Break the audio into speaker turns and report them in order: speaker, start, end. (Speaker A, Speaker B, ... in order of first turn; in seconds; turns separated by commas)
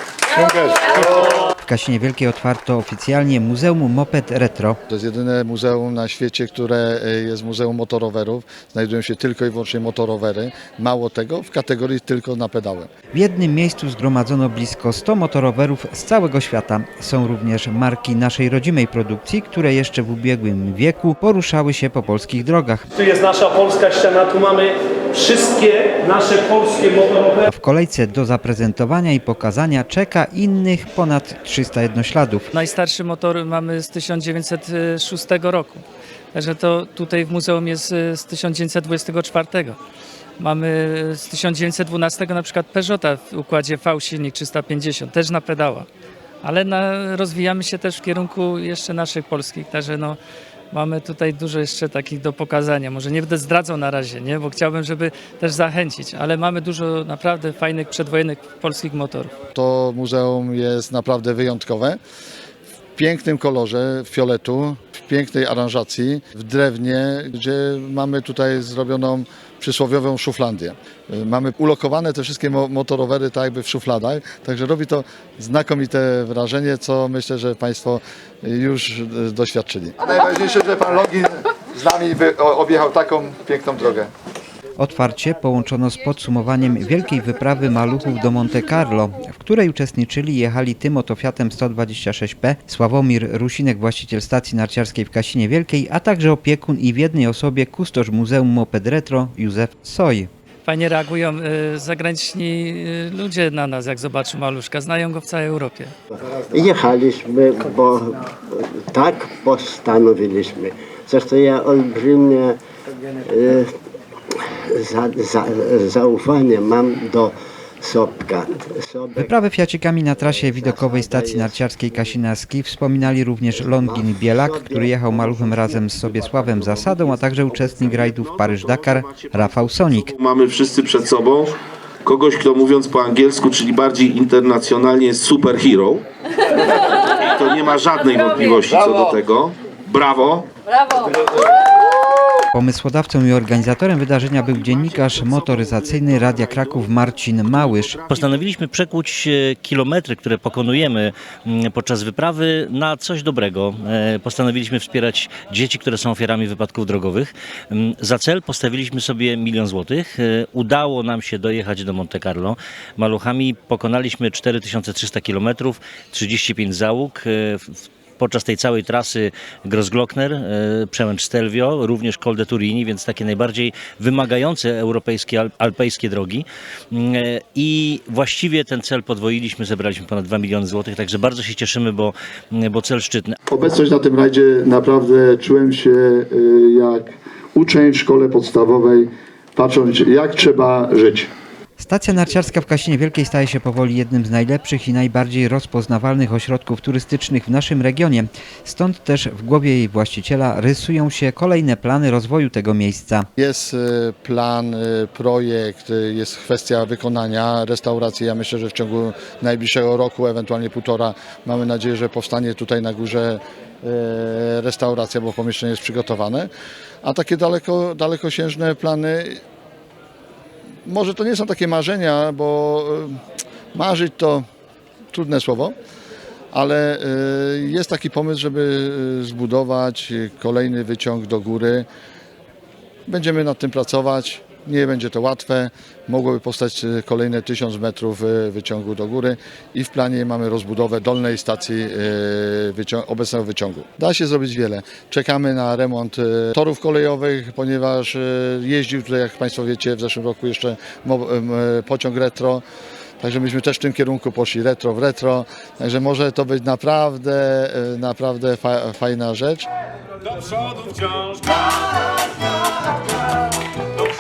Speaker A: 0.3-1.5, Speaker B: 1.6-4.8, Speaker A: 4.9-12.9, Speaker B: 13.1-22.9, Speaker C: 23.1-27.3, Speaker B: 27.5-32.5, Speaker D: 32.5-39.8, Speaker D: 40.4-45.9, Speaker D: 46.4-50.2, Speaker D: 50.7-59.3, Speaker A: 59.5-62.0, Speaker A: 63.0-84.1, Speaker B: 84.8-100.3, Speaker D: 100.7-105.9, Speaker E: 106.5-107.1, Speaker E: 107.7-108.1, Speaker E: 113.3-113.7, Speaker E: 114.8-115.5, Speaker B: 119.2-130.1, Speaker E: 120.3-121.6, Speaker E: 123.6-123.9, Speaker E: 124.8-125.7, Speaker F: 126.7-136.0, Speaker F: 136.9-140.5, Speaker B: 142.5-148.0, Speaker F: 144.4-148.5, Speaker G: 148.1-183.3, Speaker A: 183.5-191.3, Speaker B: 191.8-203.3, Speaker A: 203.4-216.5, Speaker A: 217.0-219.4, Speaker A: 220.8-223.2, Speaker A: 223.7-224.4, Speaker A: 225.1-225.8, Speaker A: 226.5-231.9, Speaker A: 233.1-252.6, Speaker A: 253.2-259.7, Speaker F: 260.5-261.4